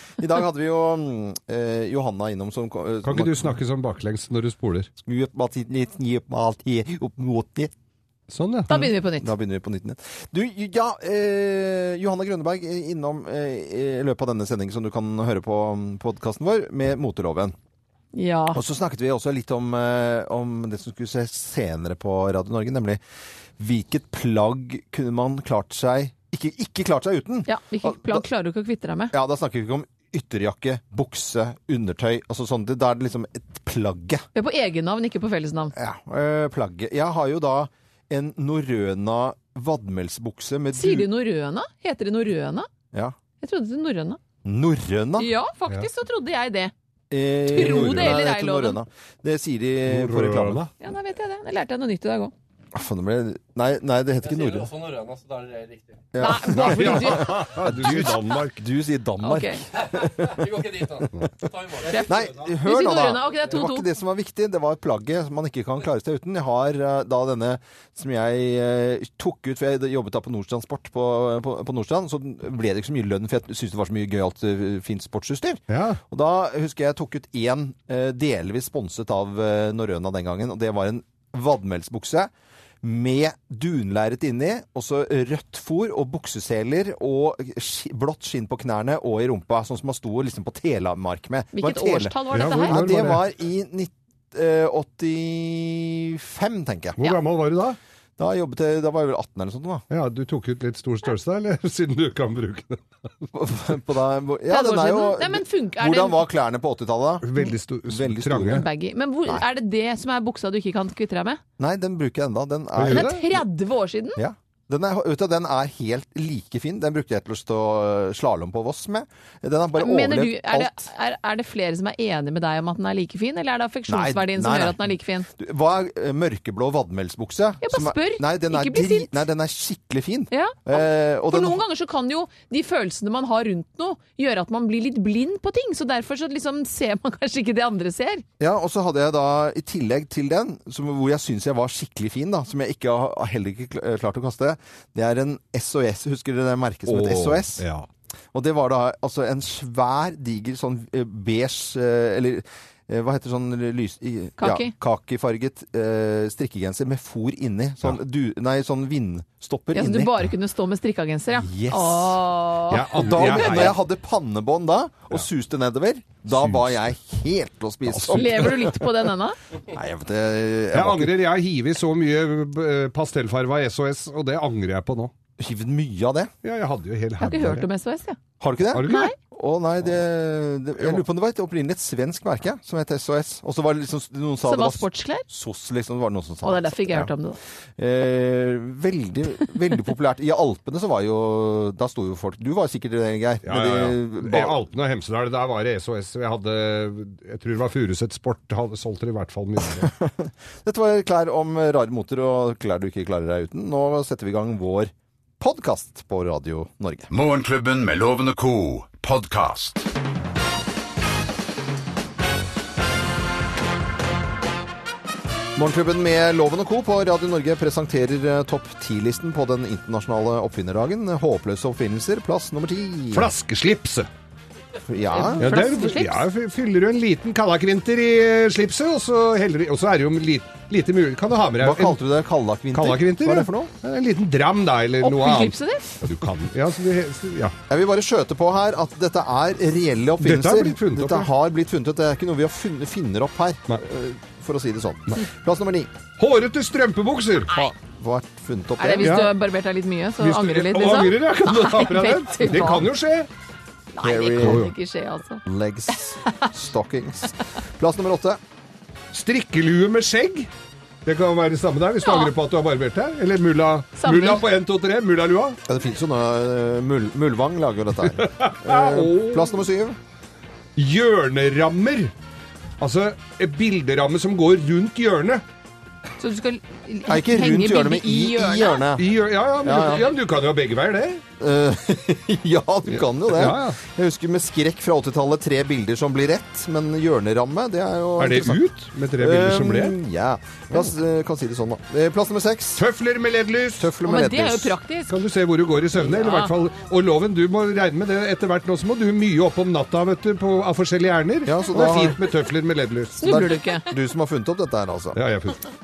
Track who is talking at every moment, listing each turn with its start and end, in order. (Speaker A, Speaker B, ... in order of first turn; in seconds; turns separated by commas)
Speaker A: 0.2-3.5, Speaker B: 3.0-4.9, Speaker A: 5.0-7.7, Speaker B: 8.3-8.9, Speaker C: 8.7-9.3, Speaker A: 9.2-17.5, Speaker C: 18.1-18.6, Speaker A: 18.5-23.0, Speaker A: 23.6-28.3, Speaker C: 27.5-29.1, Speaker A: 29.1-34.2, Speaker C: 34.4-35.7, Speaker A: 35.7-41.1, Speaker C: 40.8-42.7, Speaker C: 43.4-44.2, Speaker A: 44.4-45.3, Speaker C: 45.2-46.7, Speaker A: 47.1-50.6, Speaker C: 47.5-48.8, Speaker B: 47.6-48.1, Speaker B: 49.9-50.7, Speaker C: 50.8-52.3, Speaker A: 52.7-54.7, Speaker D: 54.2-56.1, Speaker A: 56.1-61.5, Speaker C: 56.2-57.5, Speaker B: 56.5-58.6, Speaker C: 59.2-59.6, Speaker D: 59.8-62.5, Speaker C: 61.9-63.9, Speaker A: 62.0-82.3, Speaker B: 75.7-76.0, Speaker A: 82.8-97.1, Speaker C: 91.5-92.9, Speaker B: 92.3-93.2, Speaker B: 97.0-97.8, Speaker A: 98.2-99.8, Speaker B: 99.9-102.8, Speaker A: 103.3-107.3, Speaker C: 104.5-106.2, Speaker B: 107.2-108.7, Speaker A: 107.9-108.7, Speaker C: 108.5-111.4, Speaker A: 111.6-113.4, Speaker B: 112.8-113.2, Speaker C: 112.9-114.2, Speaker A: 114.2-120.8, Speaker C: 119.8-125.3, Speaker A: 123.9-131.6, Speaker C: 127.6-129.2, Speaker C: 130.3-138.2, Speaker A: 138.4-147.6, Speaker B: 146.9-147.9, Speaker A: 148.3-160.2, Speaker C: 154.4-154.7, Speaker C: 159.7-163.7, Speaker A: 161.4-162.2, Speaker B: 162.7-163.8, Speaker A: 162.9-168.7, Speaker B: 166.3-166.8, Speaker B: 167.9-168.7, Speaker C: 168.1-169.4, Speaker A: 169.7-171.1, Speaker B: 170.7-175.1, Speaker A: 175.4-176.3, Speaker B: 176.4-177.7, Speaker C: 177.2-178.2, Speaker A: 178.4-187.1, Speaker B: 178.7-179.1, Speaker C: 178.8-179.2, Speaker C: 184.4-185.3, Speaker C: 186.4-187.4, Speaker A: 187.8-194.6, Speaker B: 193.4-199.9, Speaker A: 199.8-207.1, Speaker E: 207.1-209.9, Speaker A: 215.6-223.3, Speaker B: 223.1-224.1, Speaker A: 224.9-225.5, Speaker C: 225.1-226.2, Speaker B: 225.4-232.0, Speaker A: 231.6-233.7, Speaker B: 232.7-237.5, Speaker C: 235.0-235.9, Speaker A: 237.7-245.9, Speaker B: 240.2-241.3, Speaker B: 246.2-247.7, Speaker A: 247.8-249.3, Speaker C: 248.8-252.9, Speaker B: 249.0-249.3, Speaker B: 250.2-253.3, Speaker C: 253.9-255.4, Speaker A: 254.0-254.7, Speaker B: 254.4-254.7, Speaker A: 255.5-258.4, Speaker B: 259.1-260.5, Speaker B: 261.1-265.6, Speaker C: 262.1-262.3, Speaker C: 264.0-264.4, Speaker A: 265.7-270.0, Speaker B: 268.1-269.6, Speaker B: 270.8-272.1, Speaker B: 272.8-275.4, Speaker C: 276.2-278.9, Speaker A: 277.1-279.1, Speaker B: 279.0-281.2, Speaker A: 279.6-280.1, Speaker A: 281.4-288.6, Speaker B: 282.9-283.8, Speaker B: 288.2-290.0, Speaker A: 289.2-292.8, Speaker B: 292.8-293.9, Speaker A: 293.8-294.8, Speaker C: 294.1-295.1, Speaker B: 295.1-303.5, Speaker C: 296.1-296.5, Speaker A: 301.5-302.2, Speaker C: 303.2-303.9, Speaker A: 303.2-305.2, Speaker B: 305.1-305.6